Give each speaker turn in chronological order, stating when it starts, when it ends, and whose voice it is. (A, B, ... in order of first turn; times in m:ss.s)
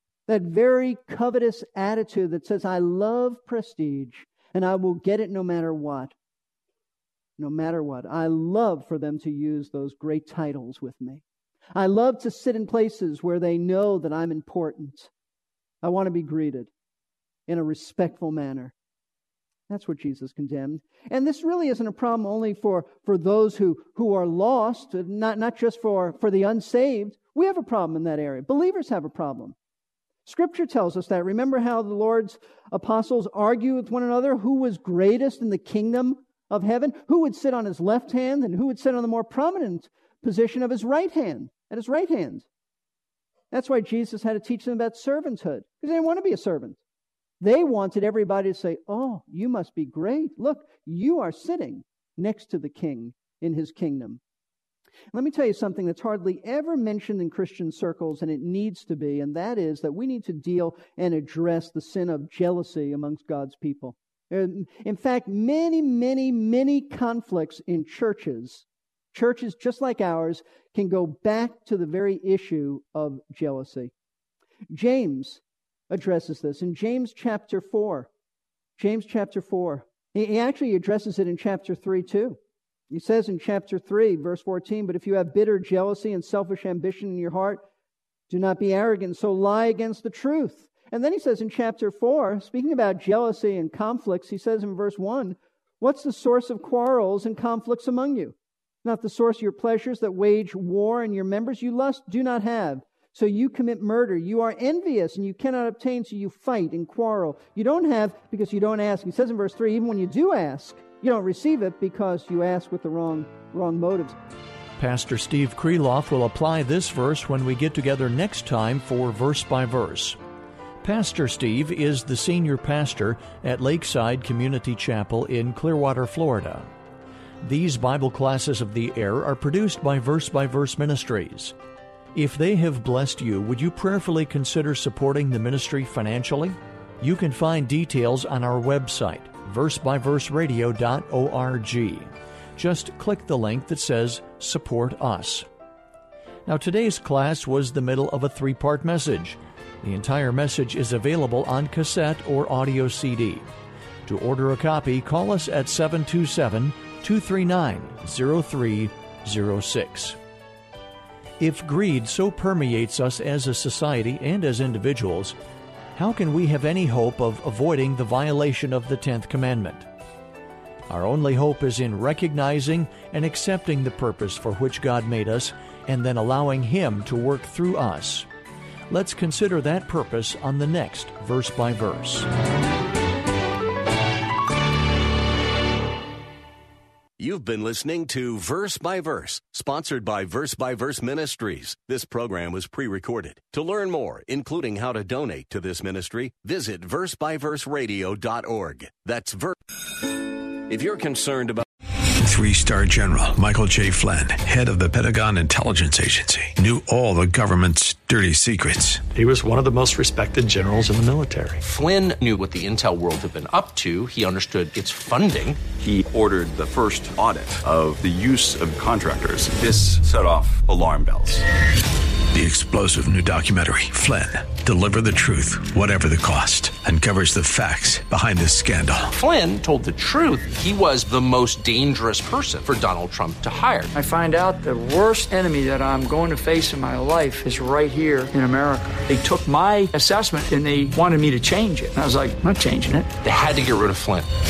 0:00.3-0:06.1 A
0:07.4-0:11.2 A
0:11.8-0:15.1 A
0:15.8-0:16.7 A
0:17.5-0:18.7 A
0:19.7-0:29.6 A
0:30.2-0:42.5 A
0:43.5-0:46.8 A
0:47.4-0:54.2 A
0:55.1-1:13.9 A
1:14.7-1:18.1 A
1:18.8-1:22.4 A
1:22.9-1:27.6 A
1:28.3-1:54.2 A
1:54.8-2:00.2 B
2:00.8-2:06.7 B
2:07.4-2:11.6 B
2:12.1-2:25.5 B
2:26.5-2:33.5 B
2:34.1-2:40.2 B
2:41.4-2:45.4 B
2:46.0-2:49.9 B
2:50.9-2:58.3 B
2:58.9-3:02.3 B
3:07.2-3:19.6 C
3:20.7-3:21.6 C
3:22.2-3:29.1 D
3:29.1-3:31.6 E
3:31.6-3:35.6 F
3:35.8-3:41.4 G
3:42.3-3:49.1 D
3:49.1-3:53.9 F
3:53.9-4:03.1 H
4:03.2-4:04.3 F